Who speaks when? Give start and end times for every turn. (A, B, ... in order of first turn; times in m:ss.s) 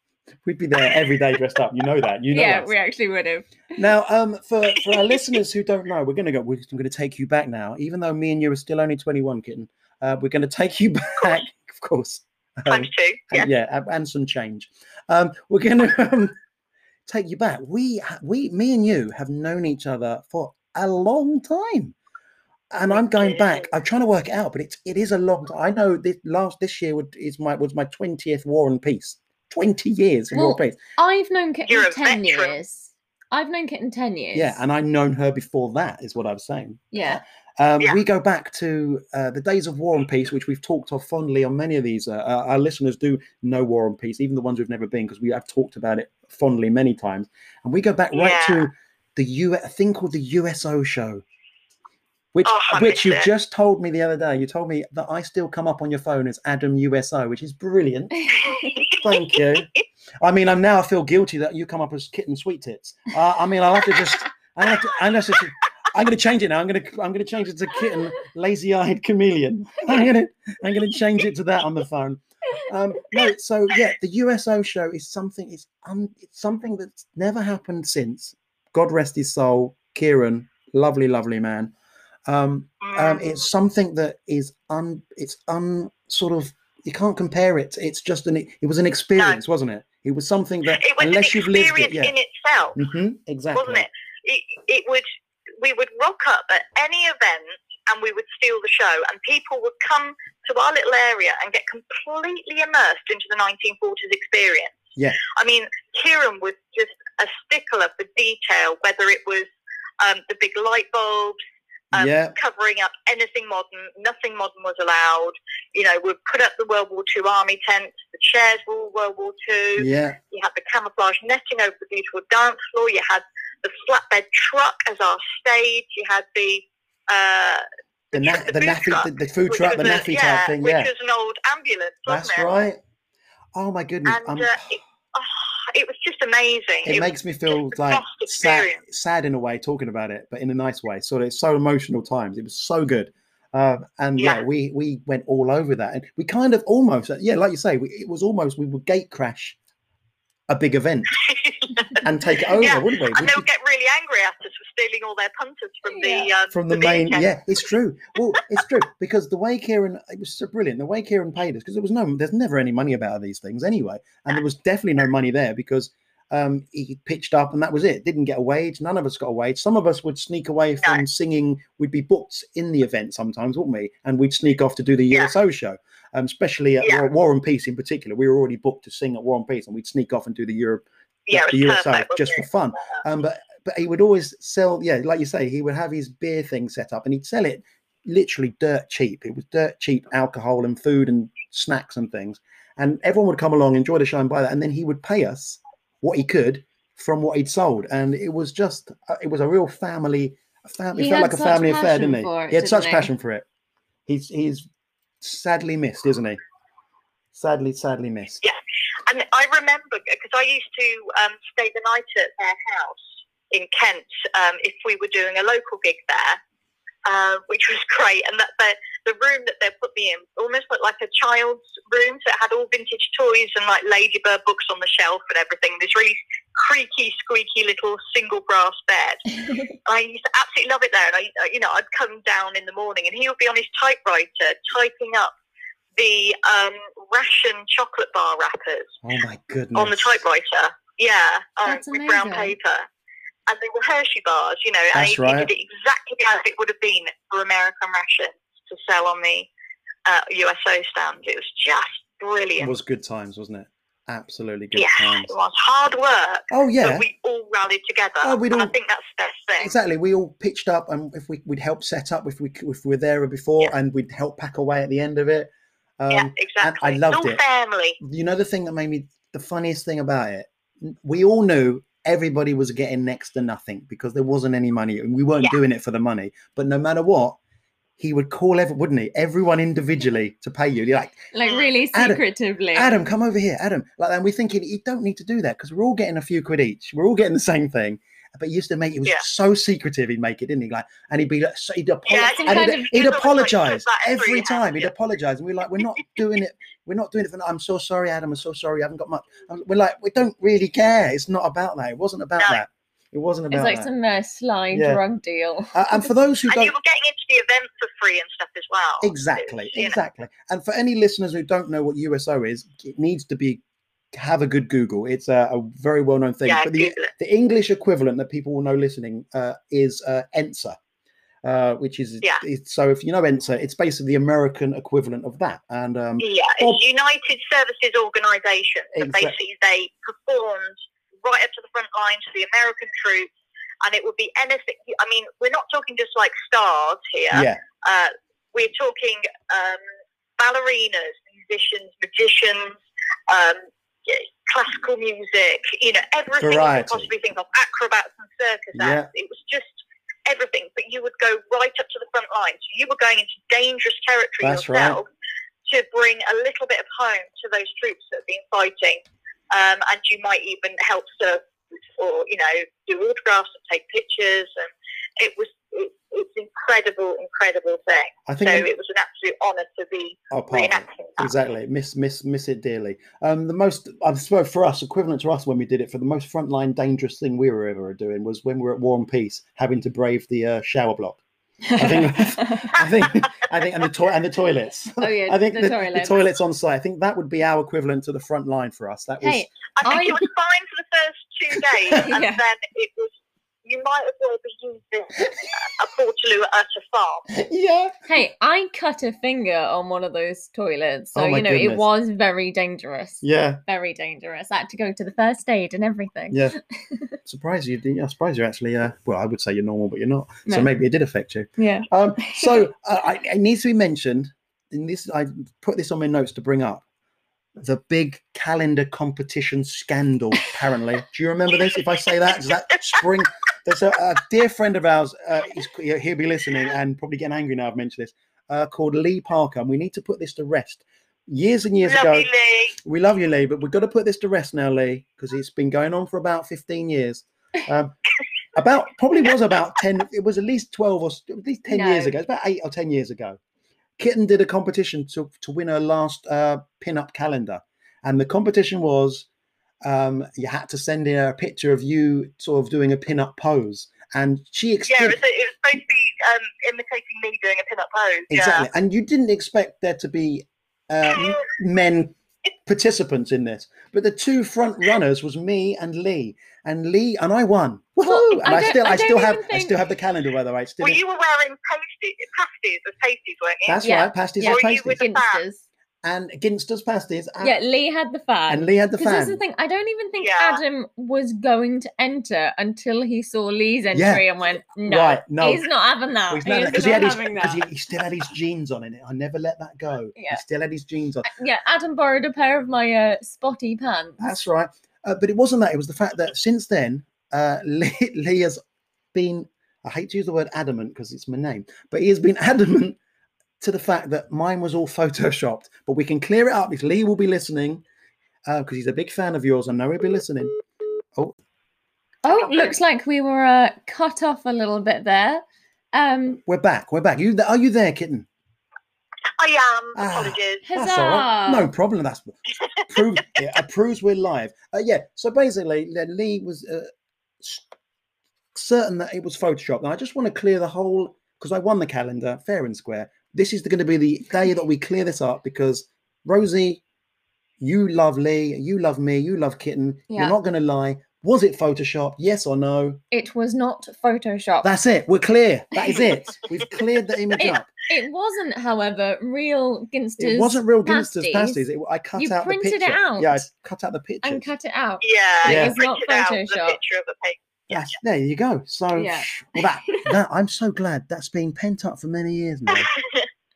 0:00.4-0:02.7 A
0:02.3-0:03.8 B
0:03.8-0:16.4 A
0:12.7-0:13.5 C
0:17.1-0:22.0 A
0:22.7-0:30.8 A
0:22.9-0:23.7 C
0:30.3-0:34.6 B
0:31.7-0:32.6 C
0:34.3-0:51.2 A
0:36.9-0:37.2 B
0:48.1-0:48.7 C
0:52.3-0:58.3 A
0:52.4-0:53.3 C
0:58.5-0:59.8 C
0:58.9-0:59.7 A
1:00.2-1:21.7 A
1:22.3-1:32.2 A
1:22.8-1:23.5 C
1:30.7-1:32.8 C
1:32.8-1:33.9 A
1:33.6-1:35.1 C
1:35.6-1:49.5 C
1:50.0-1:51.4 C
1:51.9-1:52.4 A
1:51.9-2:12.5 C
1:59.8-2:00.2 A
2:08.1-2:10.9 A
2:12.1-2:12.8 A
2:13.6-2:14.6 A
2:14.1-2:18.8 C
2:16.8-2:29.6 A
2:24.2-2:24.4 C
2:30.5-2:31.1 A
2:31.2-2:32.0 C
2:32.0-2:33.5 A
2:32.6-2:37.6 C
2:35.9-2:36.3 B
2:36.5-3:23.5 A
3:01.3-3:03.0 C
3:21.0-3:23.1 B
3:24.1-3:24.7 A
3:25.2-3:26.4 A
3:27.3-3:28.4 A
3:28.4-3:36.4 C
3:37.0-3:49.3 C
3:49.8-3:55.4 C
3:56.0-3:59.0 C
3:59.0-4:00.2 A
3:59.8-4:02.9 C
4:01.6-4:02.6 B
4:03.5-4:09.5 C
4:04.9-4:05.5 A
4:10.1-4:12.7 C
4:12.6-4:15.3 A
4:14.8-4:19.7 C
4:16.5-4:17.1 A
4:18.2-4:18.7 A
4:19.6-4:27.4 A
4:26.1-4:28.0 C
4:28.0-4:37.4 A
4:38.0-4:41.2 A
4:41.3-4:43.1 B
4:41.4-4:41.7 C
4:41.9-4:42.2 A
4:42.7-5:03.9 A
4:52.1-4:54.9 C
4:52.3-4:52.9 B
5:03.5-5:06.1 B
5:04.7-5:05.0 A
5:05.7-5:06.7 A
5:06.5-5:10.0 C
5:09.0-5:13.6 A
5:14.1-5:20.8 A
5:16.5-5:17.1 C
5:21.4-5:26.8 A
5:26.2-5:33.3 C
5:29.0-5:29.4 A
5:33.8-5:39.8 C
5:37.3-5:37.6 A
5:40.4-5:55.0 C
5:46.4-5:47.1 A
5:48.8-5:49.1 A
5:54.4-5:55.0 A
5:55.7-6:01.4 C
6:02.0-6:11.3 C
6:08.3-6:08.7 A
6:10.3-6:21.2 A
6:21.6-6:22.8 B
6:21.8-6:29.5 A
6:25.0-6:26.2 B
6:29.2-6:30.2 B
6:29.8-6:37.3 C
6:32.1-6:32.4 B
6:37.3-6:38.0 A
6:38.1-6:47.1 B
6:41.1-6:41.9 A
6:43.2-6:43.6 A
6:46.3-6:46.6 A
6:47.2-6:56.8 A
6:51.6-6:52.7 B
6:57.6-7:12.3 A
7:11.8-7:12.7 C
7:12.8-7:18.0 A
7:18.6-7:23.4 A
7:21.7-7:22.1 B
7:24.0-7:29.3 A
7:29.8-7:35.2 A
7:34.9-7:38.7 C
7:38.3-7:51.0 A
7:41.1-7:41.4 C
7:48.0-7:49.8 B
7:50.8-7:53.8 C
7:53.7-7:55.0 A
7:53.8-7:55.6 B
7:54.4-7:55.4 C
7:56.0-7:57.6 A
7:57.4-8:07.7 B
7:58.5-7:59.4 A
8:00.2-8:00.6 C
8:03.9-8:04.3 A
8:04.8-8:05.7 A
8:06.3-8:11.3 A
8:10.2-8:10.4 B
8:11.2-8:14.3 B
8:14.2-8:18.6 A
8:19.1-8:23.0 A
8:23.6-8:27.8 A
8:28.5-8:30.6 A
8:32.2-8:36.4 B
8:32.3-8:32.8 C
8:36.5-8:38.3 A
8:39.4-8:40.6 C
8:40.0-8:46.9 A
8:40.6-8:41.7 B
8:48.5-8:56.8 A
8:57.6-9:03.0 A
9:00.1-9:00.4 B
9:03.1-9:04.7 B
9:04.6-9:07.7 A
9:07.4-9:11.6 B
9:10.2-9:14.5 A
9:12.2-9:13.5 B
9:14.2-9:16.8 B
9:15.0-9:18.0 C
9:15.4-9:15.8 A
9:17.7-9:22.9 A
9:18.9-9:20.1 B
9:22.7-9:23.3 C